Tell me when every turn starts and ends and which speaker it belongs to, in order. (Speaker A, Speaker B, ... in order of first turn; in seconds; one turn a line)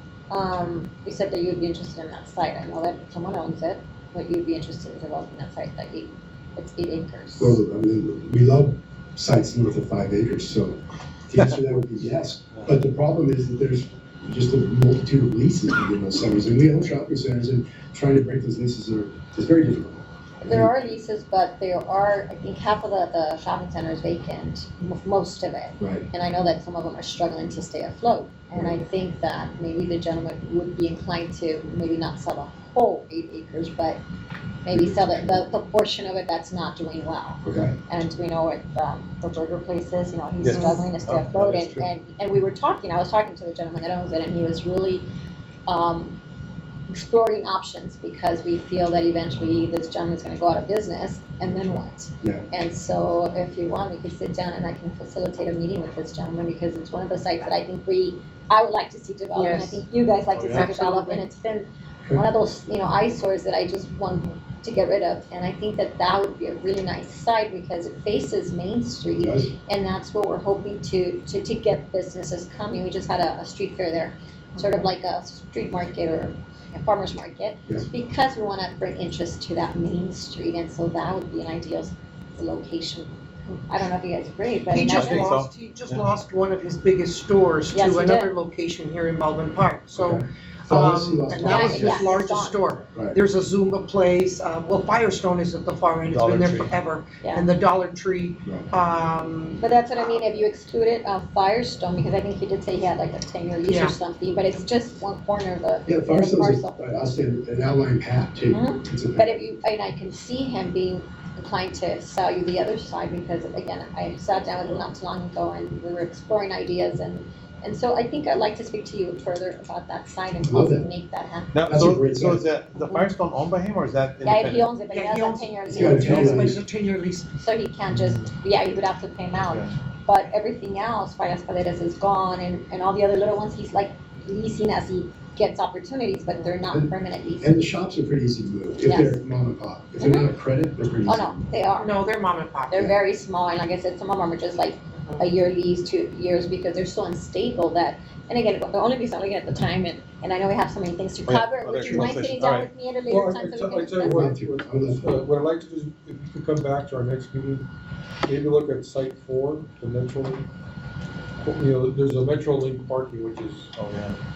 Speaker A: 0.3-7.6
Speaker B: 7.4-20.9
Speaker A: 20.4-34.0
Speaker B: 25.8-26.1
Speaker A: 34.6-45.1
Speaker B: 34.7-35.5
Speaker B: 37.4-37.8
Speaker C: 40.4-41.9
Speaker D: 40.5-40.9
Speaker A: 45.6-46.2
Speaker A: 46.9-85.3
Speaker D: 59.3-59.8
Speaker C: 60.3-60.6
Speaker D: 60.4-61.2
Speaker B: 69.2-69.5
Speaker D: 74.5-74.8
Speaker D: 84.7-99.6
Speaker C: 84.9-86.1
Speaker A: 87.7-88.3
Speaker B: 89.9-92.2
Speaker A: 91.3-92.7
Speaker C: 96.1-96.8
Speaker A: 97.2-97.5
Speaker B: 98.4-98.7
Speaker A: 99.6-106.8
Speaker D: 103.6-104.0
Speaker B: 105.9-109.4
Speaker A: 108.5-121.5
Speaker B: 120.4-120.9
Speaker C: 121.5-124.8
Speaker B: 121.6-122.5
Speaker A: 122.8-123.1
Speaker A: 124.2-126.4
Speaker D: 124.9-127.3
Speaker B: 125.7-126.6
Speaker C: 126.0-126.4
Speaker A: 127.4-137.6
Speaker C: 127.9-128.2
Speaker C: 129.5-129.7
Speaker B: 136.7-141.4
Speaker A: 138.8-139.2
Speaker A: 140.0-140.3
Speaker A: 141.1-142.0
Speaker D: 141.8-142.9
Speaker A: 142.7-154.2
Speaker C: 151.2-152.7
Speaker E: 153.1-157.7
Speaker B: 154.0-155.2
Speaker E: 158.2-160.5
Speaker E: 161.4-163.7
Speaker C: 163.8-164.2